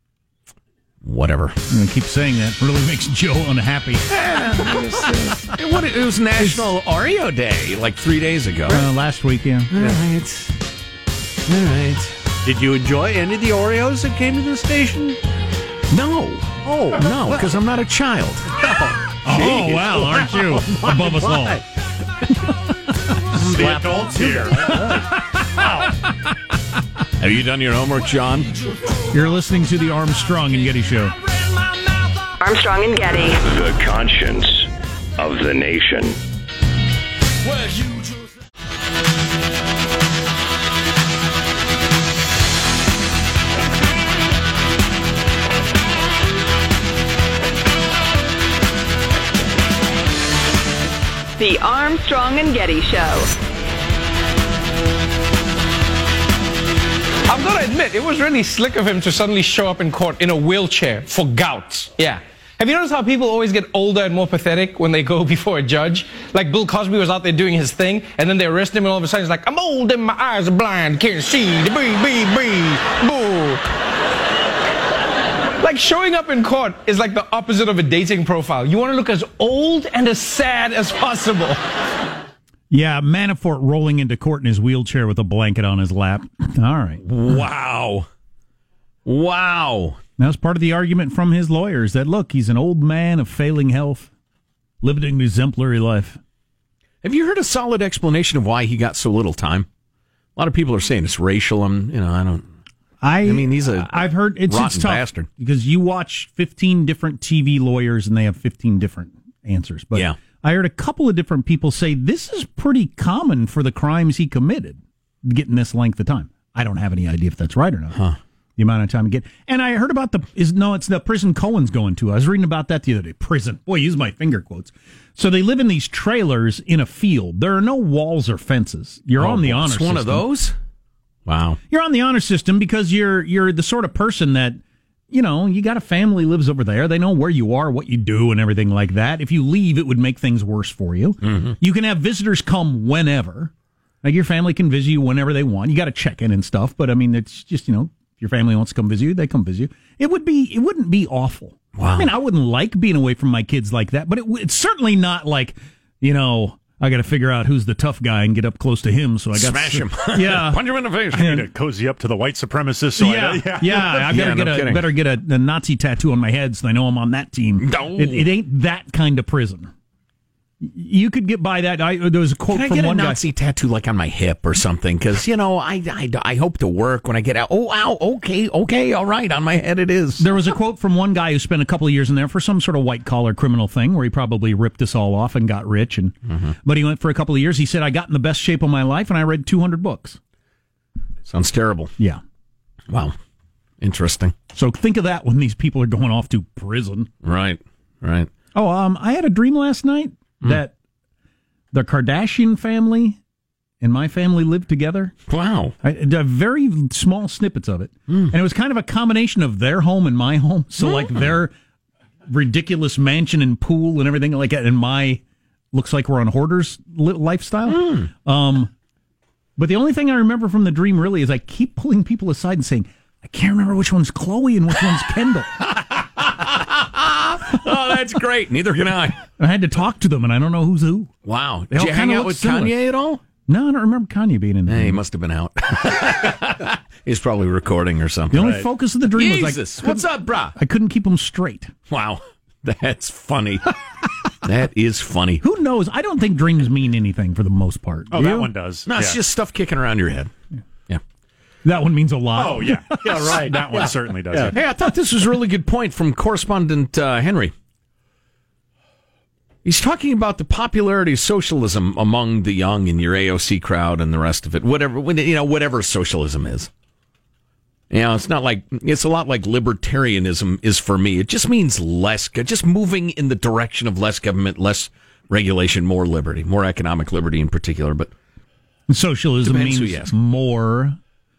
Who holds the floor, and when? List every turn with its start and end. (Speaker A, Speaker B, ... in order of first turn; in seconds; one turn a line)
Speaker A: 1.0-1.6
Speaker B: 1.7-4.0
Speaker A: 4.1-8.8
Speaker B: 6.4-6.7
Speaker B: 8.7-9.7
Speaker A: 9.7-10.5
Speaker C: 9.8-10.0
Speaker A: 11.5-12.2
Speaker C: 12.4-15.2
Speaker A: 15.9-18.6
Speaker C: 16.6-17.4
Speaker C: 18.6-21.6
Speaker B: 19.2-21.6
Speaker A: 19.2-20.0
Speaker B: 22.3-23.3
Speaker C: 23.3-25.0
Speaker D: 23.4-24.8
Speaker B: 24.7-25.3
Speaker C: 25.6-25.9
Speaker A: 27.2-28.5
Speaker B: 29.1-31.1
Speaker E: 32.4-33.4
Speaker F: 33.4-36.1
Speaker E: 51.4-53.3
Speaker G: 57.3-73.7
Speaker G: 75.6-81.6
Speaker B: 82.7-87.0
Speaker A: 87.0-88.1
Speaker A: 89.0-90.0
Speaker B: 90.2-94.1
Speaker B: 94.8-96.2
Speaker A: 97.0-99.7
Speaker A: 100.3-102.5
Speaker B: 103.0-118.0
Speaker A: 103.2-105.3
Speaker A: 117.9-118.2
Speaker B: 118.6-130.2
Speaker A: 129.2-130.6
Speaker A: 131.2-131.6
Speaker B: 131.7-134.6
Speaker B: 135.1-143.5
Speaker A: 141.2-141.6
Speaker B: 144.0-160.6
Speaker A: 151.8-152.1
Speaker A: 159.3-161.2
Speaker B: 161.1-161.5
Speaker D: 161.2-163.9
Speaker B: 163.0-169.7
Speaker A: 163.9-164.9
Speaker A: 167.6-168.3
Speaker B: 170.6-173.2
Speaker A: 172.5-180.3
Speaker B: 180.2-190.2
Speaker A: 186.3-186.5
Speaker A: 191.2-191.9
Speaker A: 192.9-193.2
Speaker A: 193.8-194.3
Speaker B: 194.5-197.1
Speaker A: 197.2-198.3
Speaker B: 198.5-200.7
Speaker B: 201.7-203.2
Speaker B: 203.8-205.1
Speaker A: 205.3-205.8
Speaker B: 205.8-211.5
Speaker A: 210.8-211.4
Speaker B: 212.3-215.2
Speaker B: 215.7-218.7
Speaker A: 217.7-218.1
Speaker B: 219.6-225.6
Speaker A: 225.6-229.2
Speaker B: 229.4-231.1
Speaker A: 231.2-233.2
Speaker B: 231.7-232.8
Speaker B: 233.5-235.0
Speaker A: 234.7-240.5
Speaker B: 238.3-241.7
Speaker A: 241.9-243.7
Speaker A: 244.4-245.4
Speaker B: 245.4-248.5
Speaker D: 248.1-249.2
Speaker A: 248.9-250.3
Speaker B: 251.6-253.5
Speaker D: 252.3-254.6
Speaker C: 253.0-254.5
Speaker A: 254.5-257.5
Speaker A: 259.6-266.7
Speaker A: 267.9-278.1
Speaker B: 278.9-281.0
Speaker A: 279.4-280.1